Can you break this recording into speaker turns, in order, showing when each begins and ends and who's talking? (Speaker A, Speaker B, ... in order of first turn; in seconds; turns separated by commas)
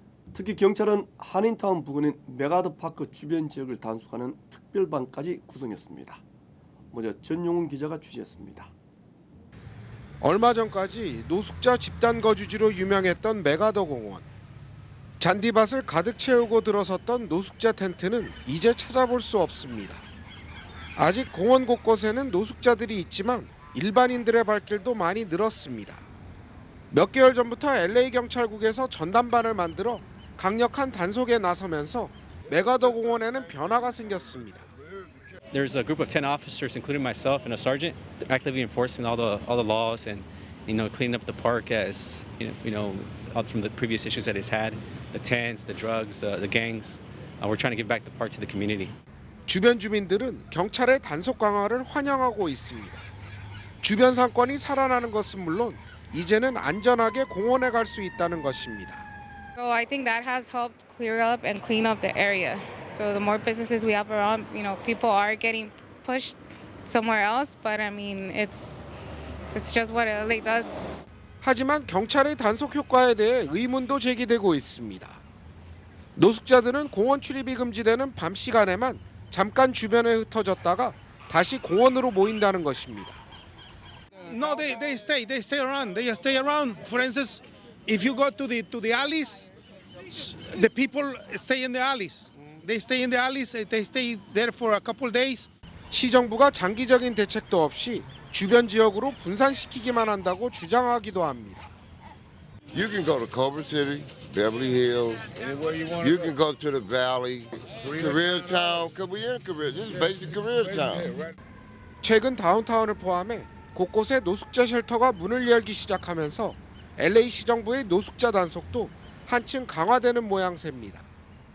Speaker A: 0.3-6.2, Speaker A: 6.9-8.7, Speaker B: 10.2-14.3, Speaker B: 15.2-20.0, Speaker B: 20.9-26.0, Speaker B: 26.9-34.7, Speaker C: 35.5-49.0, Speaker B: 49.5-53.0, Speaker B: 53.8-59.1, Speaker D: 59.6-68.8, Speaker D: 69.5-70.9, Speaker B: 71.4-75.2, Speaker B: 76.2-83.2, Speaker E: 84.2-89.5, Speaker E: 90.1-95.5, Speaker B: 95.9-101.7, Speaker F: 102.7-105.3, Speaker F: 106.0-111.1, Speaker B: 112.0-121.0